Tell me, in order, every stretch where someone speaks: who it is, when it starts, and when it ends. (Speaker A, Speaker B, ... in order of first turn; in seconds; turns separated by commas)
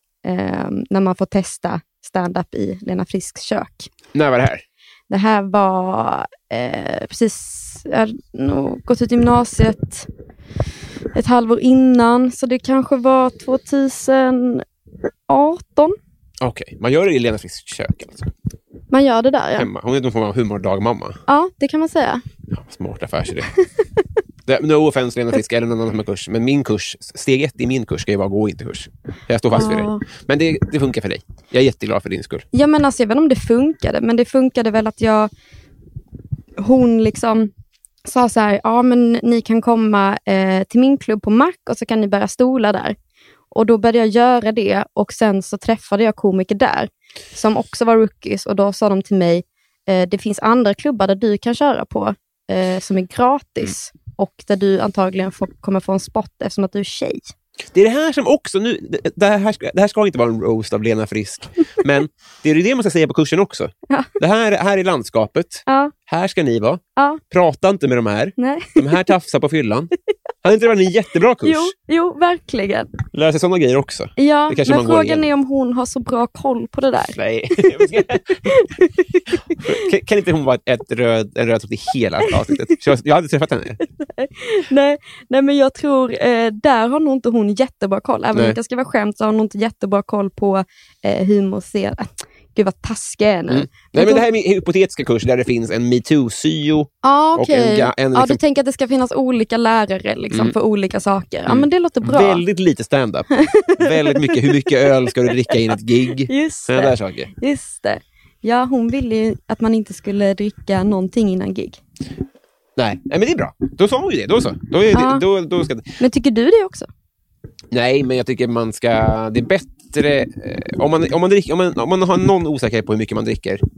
Speaker A: 0.2-3.9, Speaker B: 4.1-4.6, Speaker A: 5.1-10.1, Speaker A: 11.1-14.6, Speaker A: 15.3-15.9, Speaker B: 16.4-18.3, Speaker A: 18.9-19.7, Speaker B: 19.6-21.2, Speaker A: 21.3-22.2, Speaker B: 22.5-23.5, Speaker B: 24.4-32.5, Speaker A: 29.5-30.0, Speaker A: 32.5-35.3, Speaker A: 36.6-37.5, Speaker A: 38.0-43.0, Speaker A: 43.5-57.3, Speaker B: 57.7-69.9, Speaker A: 65.7-65.9, Speaker A: 68.4-69.0, Speaker B: 70.4-71.7, Speaker A: 71.4-72.9, Speaker B: 73.1-75.3, Speaker A: 74.2-77.7, Speaker B: 77.1-78.5, Speaker A: 78.5-79.6, Speaker B: 79.6-83.8, Speaker A: 84.0-94.2, Speaker B: 93.5-98.4, Speaker A: 97.0-102.4, Speaker B: 101.5-107.3, Speaker A: 103.4-111.8, Speaker B: 112.8-115.9, Speaker A: 114.9-115.2, Speaker A: 116.0-116.9, Speaker B: 117.7-123.6